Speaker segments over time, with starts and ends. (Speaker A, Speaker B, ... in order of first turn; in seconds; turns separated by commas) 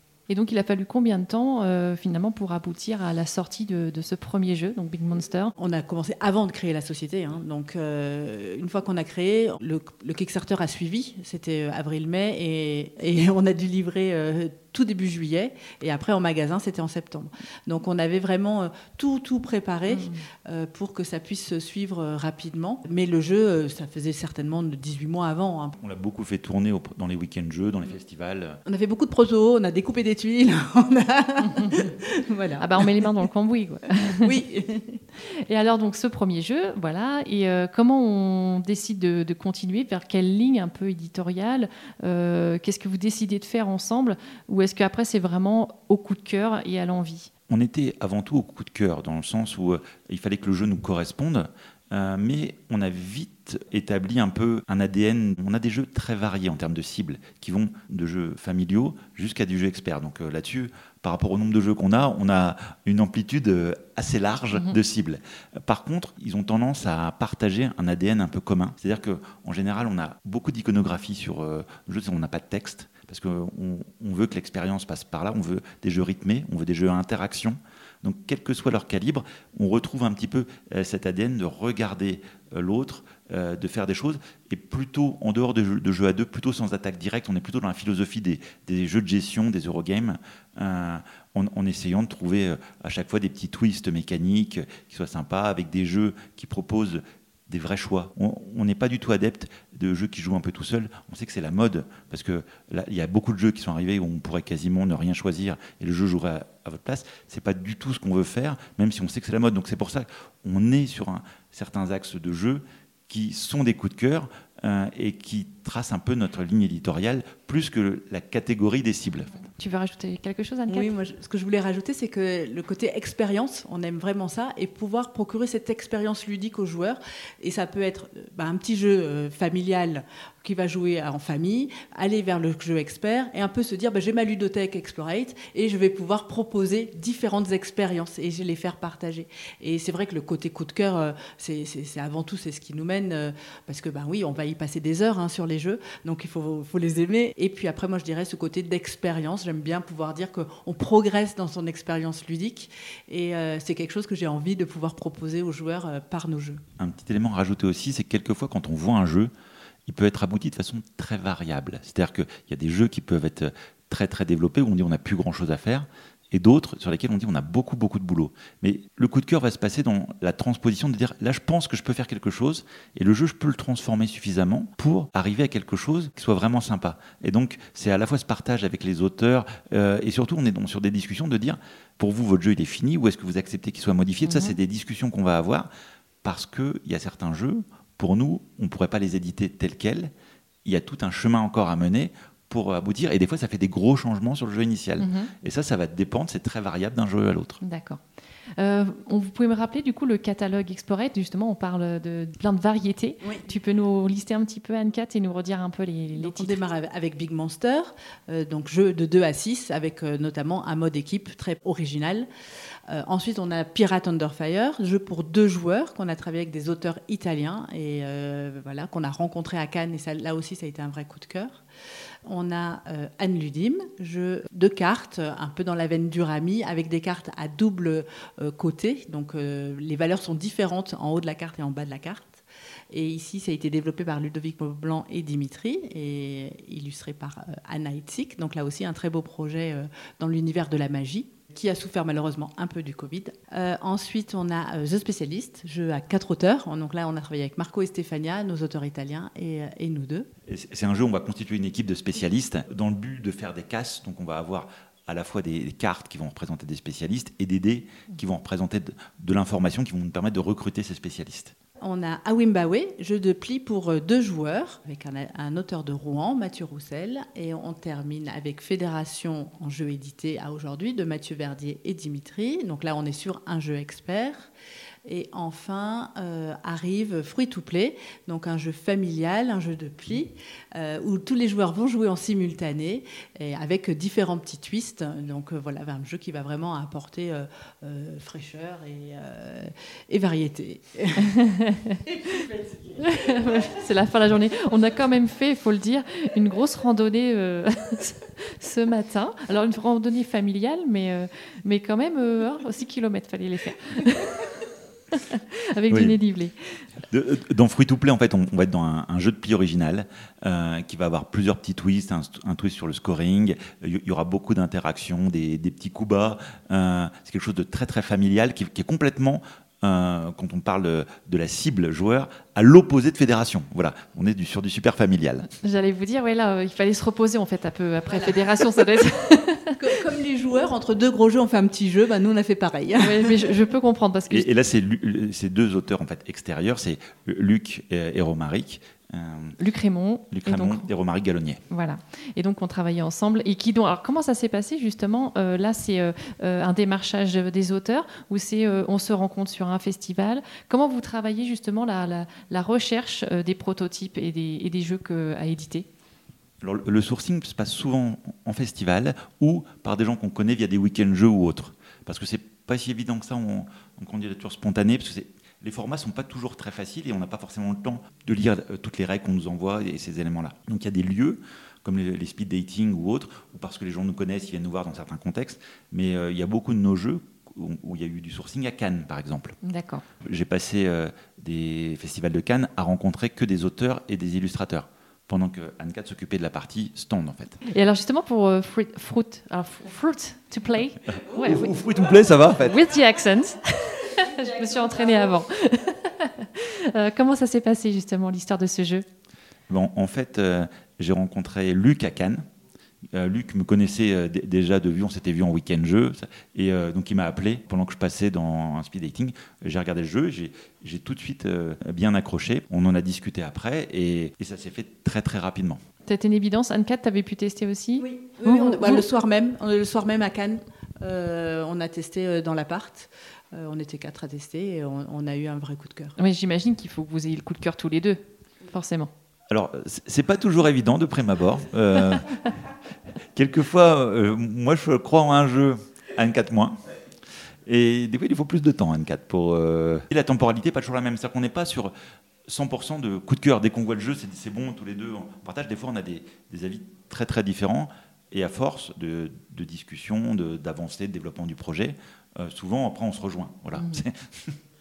Speaker A: 0.3-5.5, Speaker B: 5.6-25.8, Speaker A: 19.9-20.2, Speaker C: 25.8-28.6, Speaker B: 28.7-33.1, Speaker A: 31.5-31.9, Speaker A: 32.6-34.3, Speaker B: 34.1-35.0, Speaker A: 35.5-47.3, Speaker C: 47.5-119.3, Speaker A: 119.6-120.9, Speaker B: 120.7-156.6, Speaker C: 156.8-159.3, Speaker C: 159.9-185.7, Speaker A: 184.3-184.6, Speaker C: 186.2-190.1, Speaker C: 190.7-197.6, Speaker A: 195.0-195.3, Speaker A: 197.6-198.0, Speaker A: 198.6-206.6, Speaker B: 203.2-203.5, Speaker B: 206.2-212.3, Speaker B: 212.9-221.6, Speaker B: 222.3-250.3, Speaker C: 250.5-261.5, Speaker B: 261.8-274.5, Speaker B: 275.1-291.4, Speaker A: 291.2-292.1, Speaker B: 292.1-293.6, Speaker A: 293.0-304.4, Speaker A: 305.1-306.8, Speaker C: 305.9-306.2, Speaker C: 307.1-325.5, Speaker A: 325.6-330.0, Speaker B: 328.1-329.0, Speaker B: 329.8-333.6, Speaker A: 333.0-334.5, Speaker C: 334.3-339.6, Speaker A: 339.6-340.9, Speaker C: 340.3-341.6, Speaker A: 341.7-355.9, Speaker C: 356.6-379.6, Speaker A: 379.6-380.0, Speaker C: 380.2-387.6, Speaker A: 387.7-391.8, Speaker C: 391.1-392.9, Speaker A: 392.5-399.1, Speaker C: 399.7-402.4, Speaker C: 403.1-415.8, Speaker A: 416.1-419.0, Speaker B: 418.0-426.1, Speaker A: 426.2-429.1, Speaker C: 429.5-432.3, Speaker C: 433.3-436.8, Speaker C: 437.7-441.9, Speaker C: 442.5-454.6, Speaker A: 453.8-454.1